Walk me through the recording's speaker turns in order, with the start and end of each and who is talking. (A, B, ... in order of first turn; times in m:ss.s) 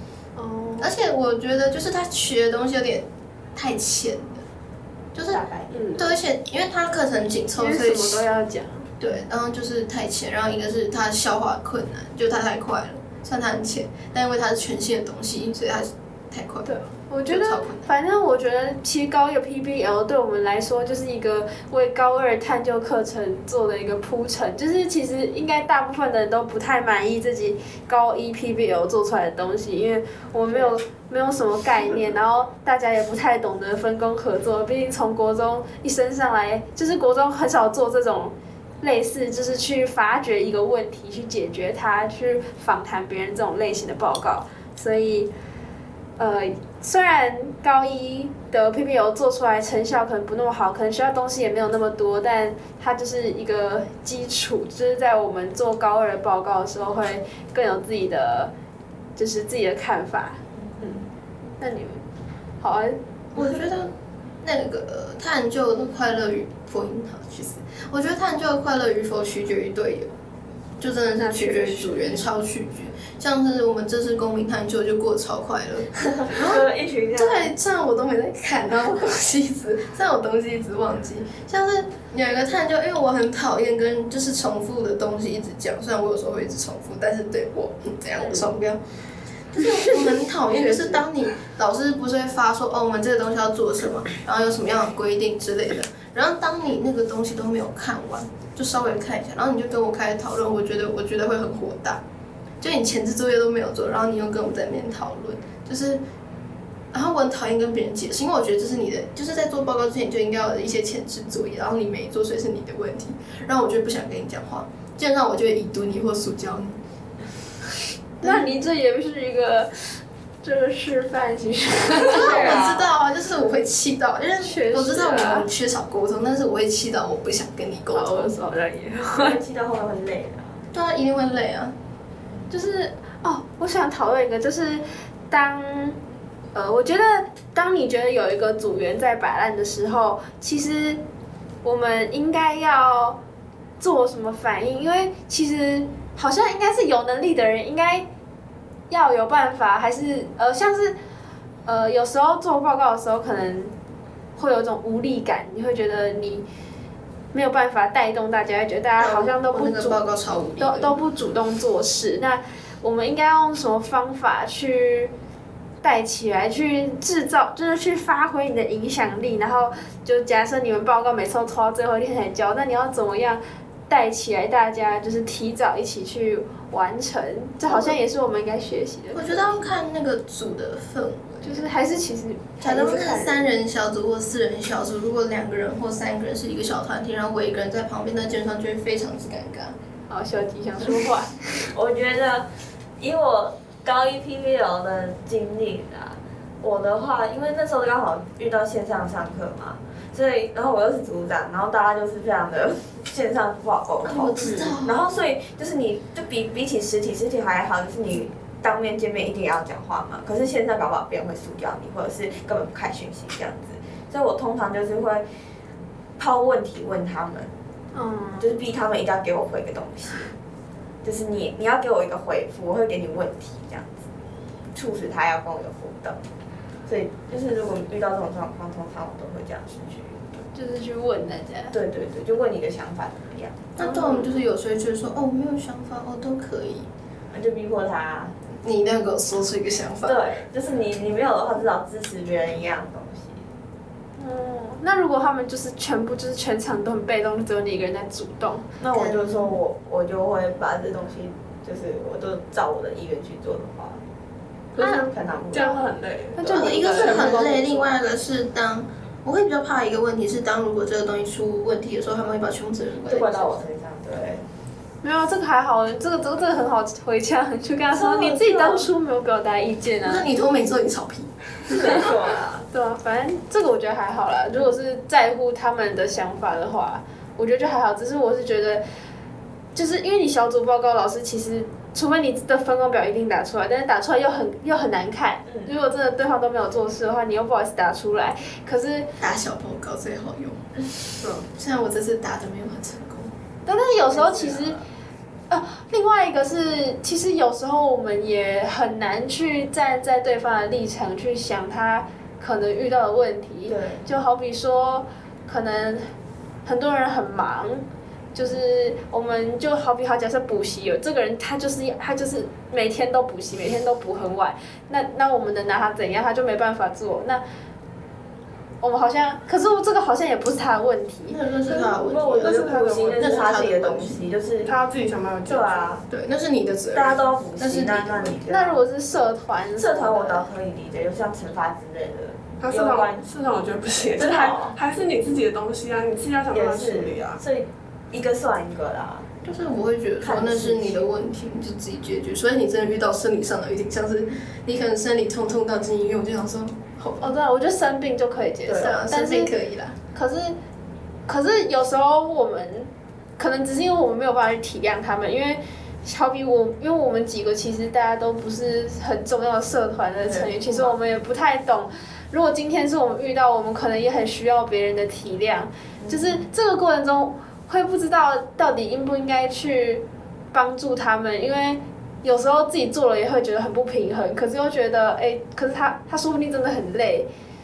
0:00.4-0:00.9 A
0:00.8-0:04.4 B
0:05.1-0:05.4 B
0:05.2-0:06.2 C
0:05.7-0:06.1 A
0:06.0-0:08.2 B
0:07.6-0:08.9 A
0:09.0-0:16.7 B
0:16.6-0:45.3 A
0:17.3-0:17.9 B
0:30.5-0:30.8 C
0:46.2-0:58.5 A
0:59.2-1:01.0 A
1:00.6-1:01.0 C
1:01.6-1:02.0 A
1:02.6-1:03.0 A
1:03.3-1:03.9 B
1:04.4-1:10.1 B
1:10.8-1:16.6 B
1:11.2-1:12.2 A
1:16.2-1:17.5 C
1:17.2-1:28.8 B
1:29.5-1:42.0 B
1:30.5-1:31.0 C
1:42.6-1:46.0 B
1:46.9-1:56.8 B
1:58.2-1:58.5 B
1:58.2-2:02.6 A
2:02.1-2:02.9 C
2:02.1-2:08.3 B
2:04.4-2:05.5 A
2:07.9-2:09.4 A
2:09.1-2:10.6 C
2:10.7-2:11.8 B
2:12.5-2:16.0 A
2:16.5-2:21.0 A
2:21.6-2:23.2 A
2:23.8-2:28.1 A
2:28.9-2:31.0 A
2:31.6-2:33.7 A
2:34.4-2:36.4 A
2:37.3-2:40.0 A
2:39.0-2:41.0 B
2:40.6-2:45.1 A
2:45.8-2:59.6 A
2:57.7-2:58.0 B
2:59.1-3:01.6 B
3:01.4-3:03.4 A
3:02.6-3:09.8 B
3:10.1-3:11.4 A
3:11.7-3:35.2 C
3:24.0-3:25.0 B
3:36.2-3:37.5 C
3:37.9-3:38.5 A
3:38.4-3:40.3 C
3:41.0-3:44.1 C
3:44.7-3:46.2 C
3:46.9-3:50.4 C
3:50.5-3:51.8 A
3:51.7-3:54.3 C
3:53.8-3:56.9 B
3:57.3-3:58.4 C
3:58.6-4:00.2 B
4:00.0-4:03.5 C
4:04.2-4:08.6 A
4:08.8-4:14.0 C
4:08.9-4:09.6 B
4:14.8-4:17.2 D
4:14.8-4:17.9 C
4:16.5-4:17.5 A
4:16.5-4:23.6 B
4:23.1-4:24.5 C
4:25.0-4:30.2 A
4:27.9-4:28.9 C
4:30.0-4:31.3 B
4:31.7-4:32.6 C
4:32.7-4:38.8 A
4:39.8-4:49.1 A
4:49.2-4:50.6 B
4:51.5-4:53.3 B
4:53.6-4:54.8 A
4:54.2-4:54.5 B
4:54.2-4:54.5 C
4:55.5-5:06.1 A
5:03.7-5:04.0 C
5:06.6-5:17.4 A
5:18.8-5:21.4 A
5:21.3-5:24.2 B
5:21.7-5:24.7 C
5:22.4-5:23.3 D
5:24.6-5:25.9 D
5:25.5-5:26.0 C
5:26.1-5:28.4 B
5:26.9-5:28.8 C
5:28.5-5:30.5 A
5:29.8-5:33.3 C
5:32.6-5:37.4 D
5:34.1-5:34.8 C
5:36.5-5:39.3 C
5:39.4-5:47.3 B
5:40.2-5:41.1 C
5:47.2-5:49.5 A
5:48.7-5:50.0 B
5:50.1-5:50.6 A
5:51.3-6:17.3 A
6:00.3-6:01.0 C
6:06.0-6:06.5 C